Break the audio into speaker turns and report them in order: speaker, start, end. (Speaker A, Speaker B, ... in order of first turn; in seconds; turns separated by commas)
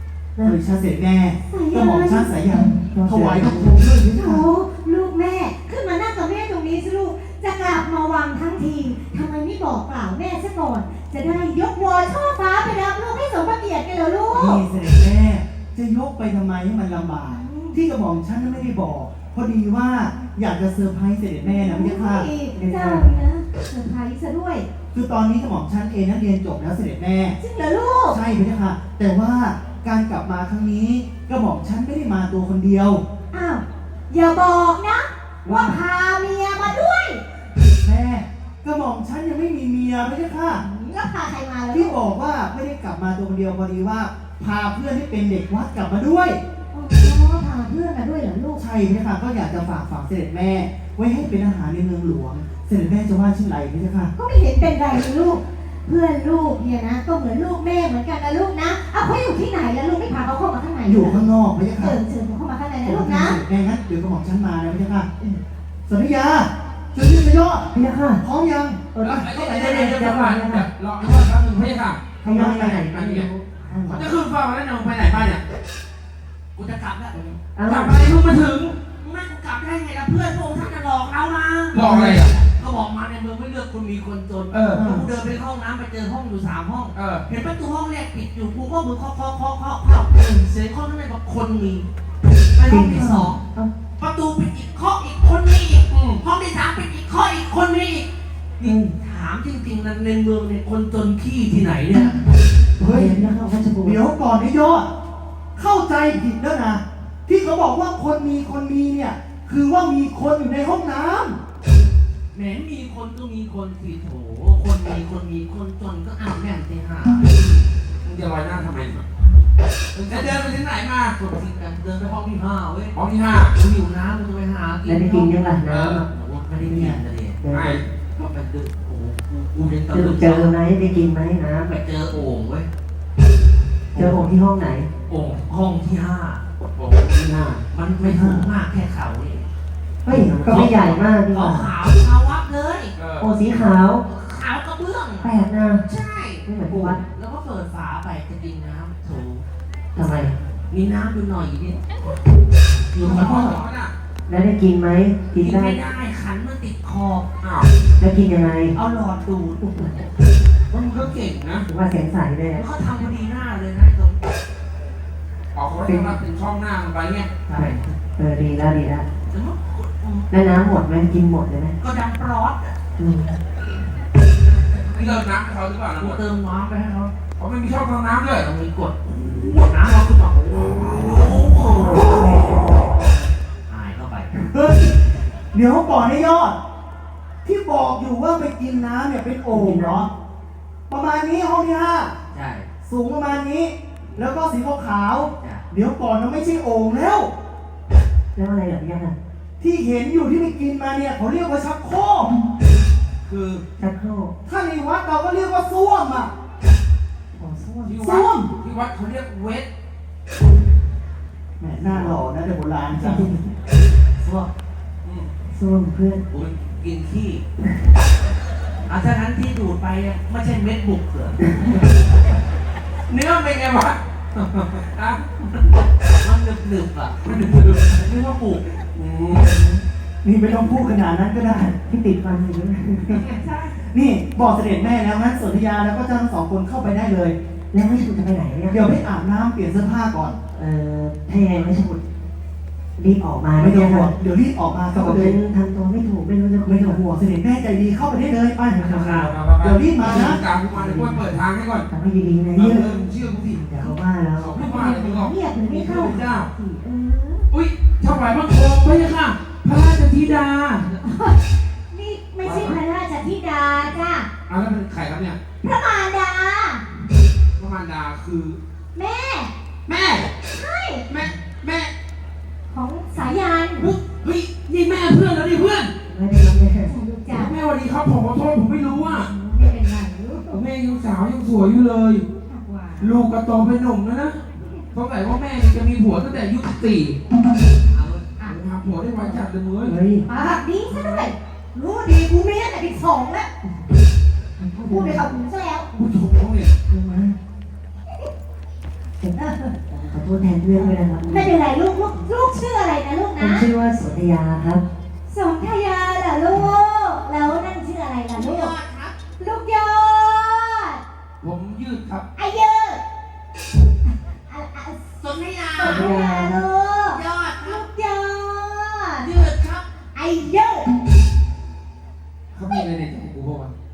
Speaker A: 0.4-4.5, Speaker B: 1.5-2.4, Speaker C: 2.7-3.7, Speaker B: 4.1-14.6, Speaker A: 14.3-22.3, Speaker B: 17.2-17.8, Speaker B: 21.4-24.7, Speaker C: 22.5-23.2, Speaker A: 24.9-27.4, Speaker B: 27.4-28.2, Speaker A: 28.1-33.0, Speaker B: 33.3-37.2, Speaker A: 35.5-35.8, Speaker A: 37.6-40.6, Speaker B: 40.5-42.0, Speaker A: 41.7-46.4, Speaker B: 46.7-48.6, Speaker A: 48.5-54.1, Speaker B: 54.2-61.2, Speaker A: 60.9-62.0, Speaker B: 61.7-63.4, Speaker A: 62.8-65.1, Speaker A: 65.9-69.8, Speaker C: 67.7-68.2, Speaker C: 68.9-70.7, Speaker D: 69.0-73.3, Speaker A: 72.2-72.8, Speaker C: 72.2-74.1, Speaker D: 73.9-75.4, Speaker E: 76.6-77.3, Speaker C: 77.5-78.1, Speaker D: 77.7-78.8, Speaker E: 79.0-91.9, Speaker D: 81.7-82.4, Speaker D: 84.5-85.0, Speaker D: 86.9-87.3, Speaker E: 92.6-93.4, Speaker C: 92.7-93.7, Speaker A: 92.9-93.3, Speaker E: 94.0-98.1, Speaker D: 95.9-96.2, Speaker E: 98.6-102.3, Speaker C: 98.6-98.9, Speaker A: 102.8-103.2, Speaker C: 102.8-104.0, Speaker A: 103.8-104.9, Speaker A: 105.6-111.4, Speaker E: 112.3-117.6, Speaker D: 118.0-119.0, Speaker E: 119.9-123.0, Speaker D: 120.0-121.2, Speaker D: 122.9-123.6, Speaker E: 123.5-125.4, Speaker C: 124.8-126.1, Speaker D: 125.7-126.0, Speaker E: 126.1-127.6, Speaker C: 127.4-127.8, Speaker D: 127.5-127.8, Speaker E: 128.2-130.5, Speaker C: 129.9-131.8, Speaker E: 131.7-132.7, Speaker E: 133.9-134.3, Speaker C: 133.9-134.9, Speaker E: 135.1-136.4, Speaker D: 136.8-137.6, Speaker E: 137.7-139.4, Speaker C: 140.1-141.7, Speaker E: 140.1-142.9, Speaker D: 143.0-143.3, Speaker C: 143.2-144.1, Speaker E: 143.6-145.3, Speaker C: 145.2-145.8, Speaker E: 145.8-149.4, Speaker C: 146.4-147.0, Speaker C: 149.9-150.3, Speaker E: 150.0-151.9, Speaker E: 152.9-153.7, Speaker D: 153.0-153.9, Speaker C: 154.3-155.8, Speaker E: 155.3-157.3, Speaker D: 157.4-157.7, Speaker C: 158.0-158.8, Speaker E: 158.7-160.1, Speaker C: 159.6-160.1, Speaker D: 160.7-161.7, Speaker C: 161.7-162.7, Speaker E: 162.6-164.2, Speaker D: 165.6-167.3, Speaker C: 165.8-166.2, Speaker E: 167.5-167.9, Speaker C: 167.5-169.1, Speaker E: 169.3-170.3, Speaker C: 170.3-171.8, Speaker E: 171.8-172.8, Speaker C: 173.0-173.3, Speaker E: 174.6-175.3, Speaker D: 174.9-176.2, Speaker E: 176.0-177.1, Speaker D: 177.4-178.5, Speaker E: 178.4-180.1, Speaker D: 179.9-181.1, Speaker E: 180.8-184.3, Speaker A: 184.3-185.0, Speaker A: 185.5-186.6, Speaker A: 187.4-190.1, Speaker C: 189.5-190.1, Speaker A: 190.9-192.1, Speaker E: 192.3-192.7, Speaker A: 192.8-197.3, Speaker E: 195.3-195.6, Speaker C: 198.3-199.2, Speaker A: 199.6-202.3, Speaker D: 203.3-203.6, Speaker C: 203.8-204.3, Speaker A: 204.4-206.3, Speaker C: 207.3-208.1, Speaker D: 207.8-209.7, Speaker A: 208.0-208.5, Speaker A: 211.6-213.3, Speaker C: 211.8-212.2, Speaker C: 212.9-213.5, Speaker E: 214.2-214.5, Speaker D: 215.0-215.3, Speaker C: 215.5-216.2, Speaker E: 216.3-217.4, Speaker E: 218.9-221.4, Speaker D: 223.1-225.2, Speaker E: 226.1-228.7, Speaker D: 227.3-227.8, Speaker D: 228.9-229.6, Speaker A: 230.2-231.8, Speaker C: 231.7-233.3, Speaker D: 233.1-233.8, Speaker A: 233.1-237.3, Speaker C: 237.7-239.0, Speaker A: 238.7-240.4, Speaker C: 240.5-242.0, Speaker C: 243.0-244.1, Speaker A: 243.6-245.4, Speaker C: 244.9-247.0, Speaker A: 246.6-248.8, Speaker C: 248.7-249.4, Speaker D: 248.8-251.9, Speaker A: 249.6-250.4, Speaker C: 250.0-251.3, Speaker C: 251.9-253.0, Speaker D: 252.5-256.5, Speaker C: 253.5-254.7, Speaker B: 254.6-257.5, Speaker D: 257.5-260.9, Speaker B: 261.0-264.3, Speaker D: 262.4-262.8, Speaker D: 264.5-265.4, Speaker B: 265.6-266.8, Speaker D: 267.6-268.6, Speaker B: 268.9-269.5, Speaker D: 269.9-270.3, Speaker B: 270.5-271.1, Speaker D: 271.1-271.9, Speaker B: 272.7-273.9, Speaker D: 273.8-275.9, Speaker C: 276.1-276.9, Speaker B: 276.9-277.5, Speaker D: 277.3-279.3, Speaker B: 279.0-280.6, Speaker D: 280.5-282.2, Speaker B: 282.5-283.2, Speaker D: 283.0-287.2, Speaker E: 287.9-288.3, Speaker D: 288.4-290.0, Speaker C: 289.8-290.2, Speaker B: 290.3-293.5, Speaker C: 294.6-295.3, Speaker B: 294.9-295.9, Speaker D: 295.9-296.7, Speaker C: 296.9-297.4, Speaker C: 299.2-301.5, Speaker B: 299.4-299.8, Speaker B: 300.8-303.7, Speaker C: 303.4-304.8, Speaker B: 305.3-308.8, Speaker E: 308.3-309.2, Speaker B: 309.4-311.0, Speaker D: 311.4-312.2, Speaker B: 312.4-313.0, Speaker B: 314.1-315.2, Speaker E: 315.2-316.1, Speaker B: 315.8-319.3, Speaker C: 315.8-316.6, Speaker E: 317.1-317.8, Speaker E: 319.2-319.9, Speaker B: 320.1-320.9, Speaker D: 322.5-323.7